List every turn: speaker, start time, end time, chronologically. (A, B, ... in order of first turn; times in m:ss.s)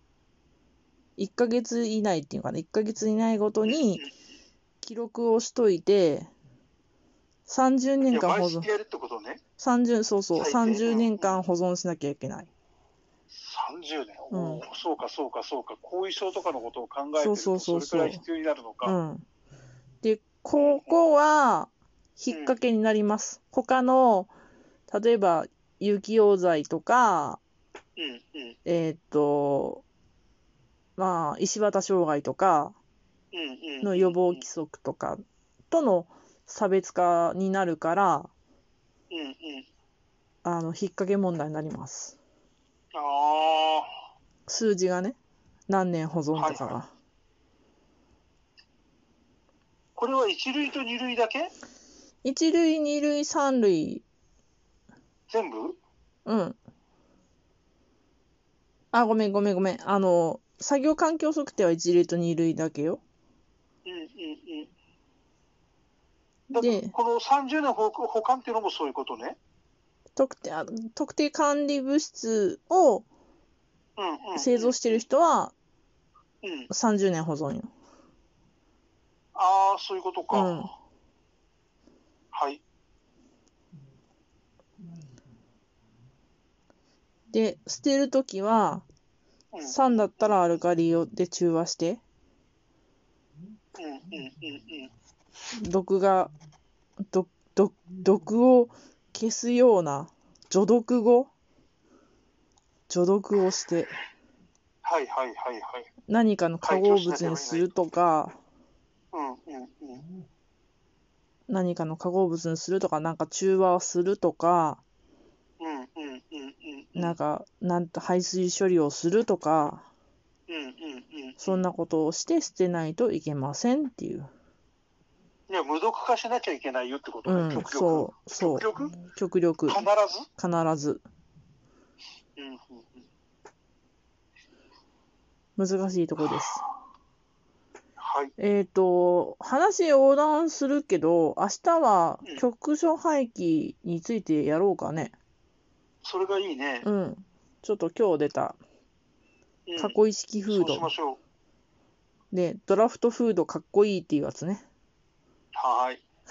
0:01.2-0:04.1 A
0:03.6-0:04.1 B
0:04.8-0:06.3 A
0:07.5-0:08.7 A
0:08.1-0:09.4 B
0:09.6-0:12.5 A
0:10.3-0:11.4 B
0:13.3-0:19.0 B
0:14.3-0:14.6 A
0:17.2-0:18.2 A
0:18.8-0:19.2 A
0:20.0-0:24.3 A
0:20.6-0:21.0 B
0:22.3-0:22.6 B
0:24.9-0:27.4 A
0:28.0-0:28.6 B
0:28.6-0:29.8 A
0:31.0-0:32.8 A
0:33.3-0:34.4 B
0:33.8-0:38.3 A
0:39.1-0:39.7 B
0:40.4-0:42.2 A
0:42.9-0:43.9 B
0:44.5-0:45.2 A
0:45.7-0:46.9 A
0:46.4-0:46.8 B
0:50.0-0:51.5 B
0:52.2-0:54.0 A
0:55.3-0:55.8 B
0:56.2-0:56.6 A
0:58.9-1:03.0 A
1:03.8-1:04.7 B
1:06.5-1:09.4 B
1:06.5-1:06.9 A
1:10.2-1:13.0 A
1:14.0-1:15.0 B
1:14.4-1:15.5 A
1:16.4-1:16.7 B
1:16.7-1:17.7 A
1:19.3-1:20.7 B
1:20.3-1:20.7 A
1:22.3-1:22.6 B
1:27.3-1:28.8 A
1:29.5-1:30.4 B
1:29.6-1:32.0 A
1:33.8-1:34.9 B
1:35.6-1:36.3 A
1:37.1-1:41.3 A
1:42.9-1:44.0 A
1:44.8-1:45.9 B
1:46.1-1:48.4 A
1:46.6-1:47.7 B
1:49.1-1:50.0 B
1:51.5-1:54.8 A
1:55.6-1:57.2 B
1:57.0-1:59.9 A
2:00.5-2:01.6 B
2:01.4-2:04.3 A
2:05.5-2:09.0 B
2:07.2-2:09.9 A
2:09.7-2:10.3 B
2:10.4-2:11.0 A
2:12.4-2:13.0 B
2:15.6-2:16.7 A
2:18.0-2:18.3 B
2:18.4-2:25.1 A
2:26.0-2:26.9 B
2:26.8-2:28.6 A
2:29.7-2:30.0 B
2:29.8-2:30.9 A
2:30.5-2:31.2 B
2:32.3-2:34.6 A
2:35.5-2:36.0 B